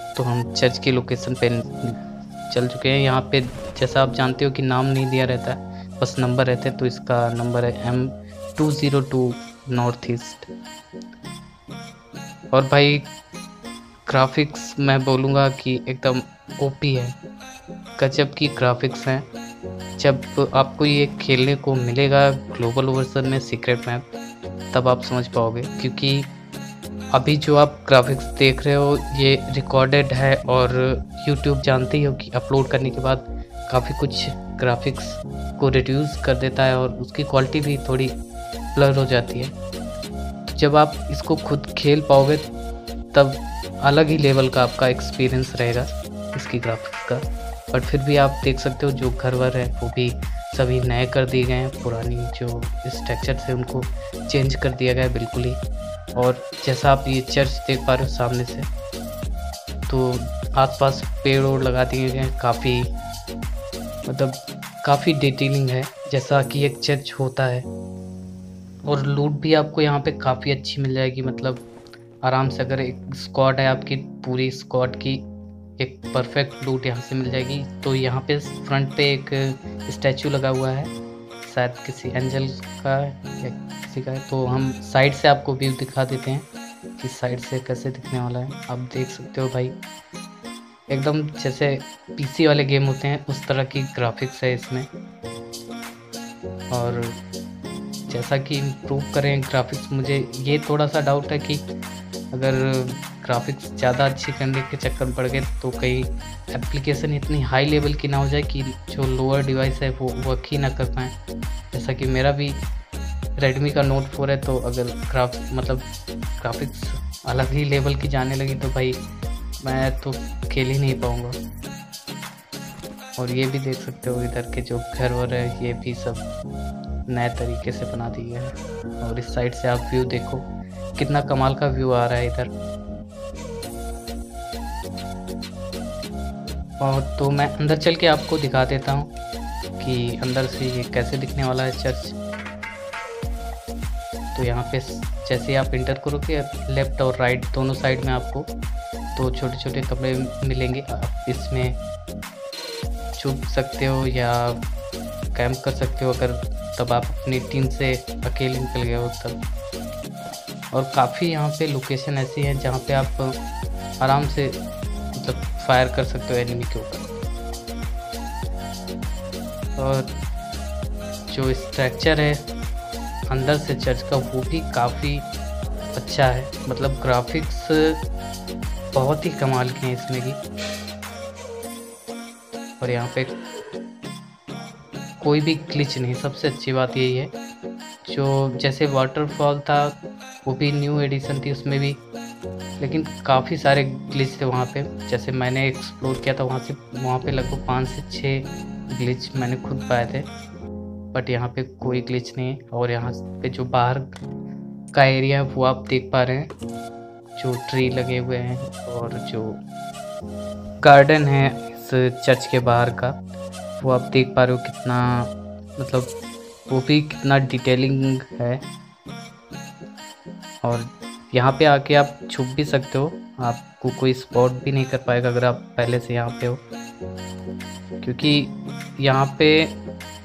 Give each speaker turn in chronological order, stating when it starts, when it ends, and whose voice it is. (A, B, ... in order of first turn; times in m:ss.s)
0:00.2-0:02.0 A
0:02.5-0:10.5 A
0:12.5-0:13.1 A
0:14.1-0:17.2 A
0:18.0-0:19.3 A
0:20.0-0:24.0 A
0:24.7-0:26.3 A
0:27.1-0:38.2 A
0:38.7-0:39.5 A
0:40.5-0:42.5 A
0:43.1-0:55.6 A
0:56.1-0:58.7 A
0:59.9-1:02.9 A
1:04.1-1:07.7 A
1:08.8-1:11.6 A
1:12.2-1:15.2 A
1:15.8-1:20.9 A
1:21.4-1:26.5 A
1:27.0-1:29.8 A
1:30.9-1:34.9 A
1:36.7-1:37.2 A
1:38.1-1:41.6 A
1:42.3-1:51.1 A
1:51.7-1:52.6 A
1:53.4-1:59.0 A
1:59.6-2:01.4 A
2:03.2-2:06.2 A
2:07.1-2:12.5 A
2:16.8-2:19.1 A
2:19.8-2:22.2 A
2:24.3-2:28.5 A
2:29.1-2:31.8 A
2:33.2-2:34.6 A
2:35.3-2:39.4 A
2:40.7-2:43.4 A
2:44.0-2:44.6 A
2:45.1-2:47.1 A
2:49.8-2:50.1 A
2:51.3-2:52.4 A
2:53.3-2:55.3 A
2:55.9-2:58.0 A
2:58.9-3:00.4 A
3:02.8-3:03.3 A
3:05.2-3:07.3 A
3:08.0-3:12.0 A
3:12.8-3:20.3 A
3:21.1-3:24.1 A
3:24.9-3:26.5 A
3:27.4-3:29.6 A
3:30.8-3:33.2 A
3:33.8-3:36.1 A
3:36.7-3:38.6 A
3:40.6-3:46.6 A
3:48.0-3:49.8 A